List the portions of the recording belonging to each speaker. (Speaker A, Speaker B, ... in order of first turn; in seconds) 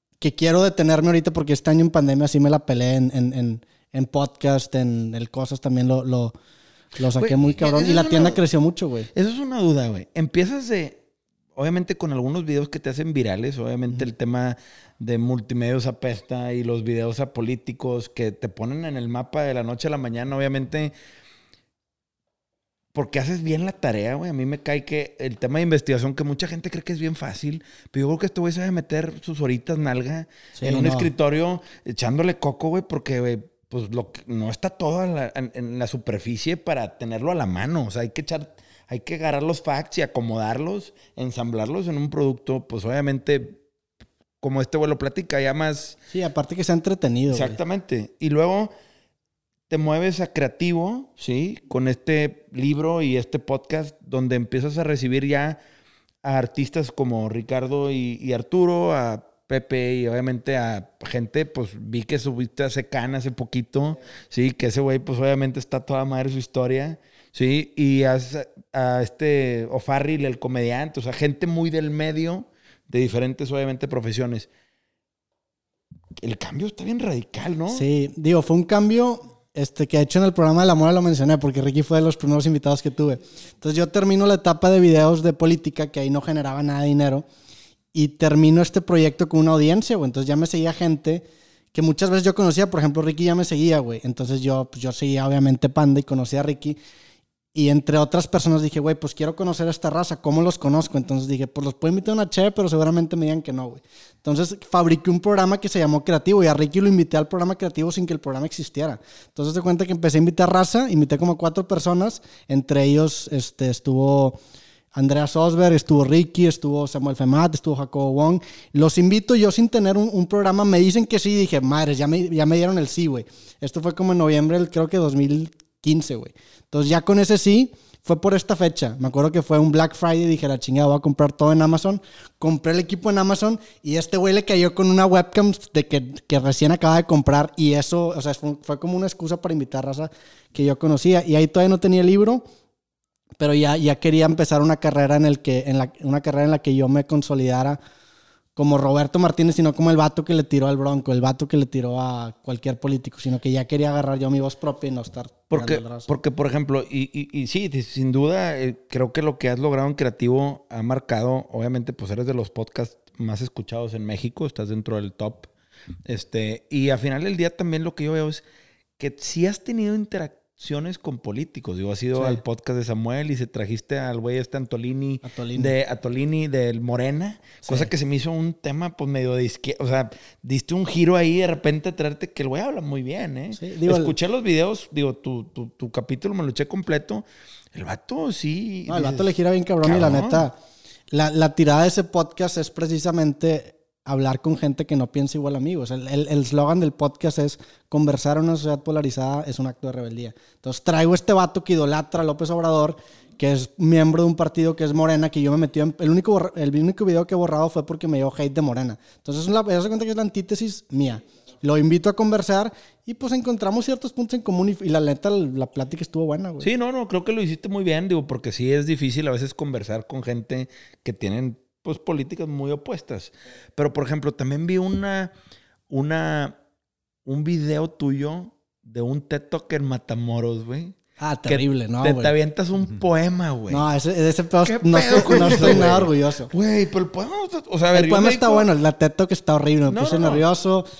Speaker A: 0.2-6.3, 7.0-9.1, 30.6-31.1, 46.1-47.6, 77.7-87.2, 87.9-96.8, 97.5-114.4, 114.9-142.4, 143.4-147.8, 148.6-156.1, 172.1-172.4, 175.2-175.7, 177.6-177.9, 183.6-184.1, 188.9-190.6, 191.1-216.7, 231.2-232.3, 233.7-236.5, 237.9-240.9
Speaker B: 7.1-8.4, 9.1-11.0, 11.6-20.9, 22.9-43.6, 44.4-46.0, 47.3-48.7, 49.7-55.6, 56.2-74.5, 76.2-77.8, 155.5-165.5, 166.1-168.4, 169.0-189.3, 189.8-190.5, 216.6-225.3, 225.9-226.6, 227.2-233.9, 234.6-238.7, 239.9-240.4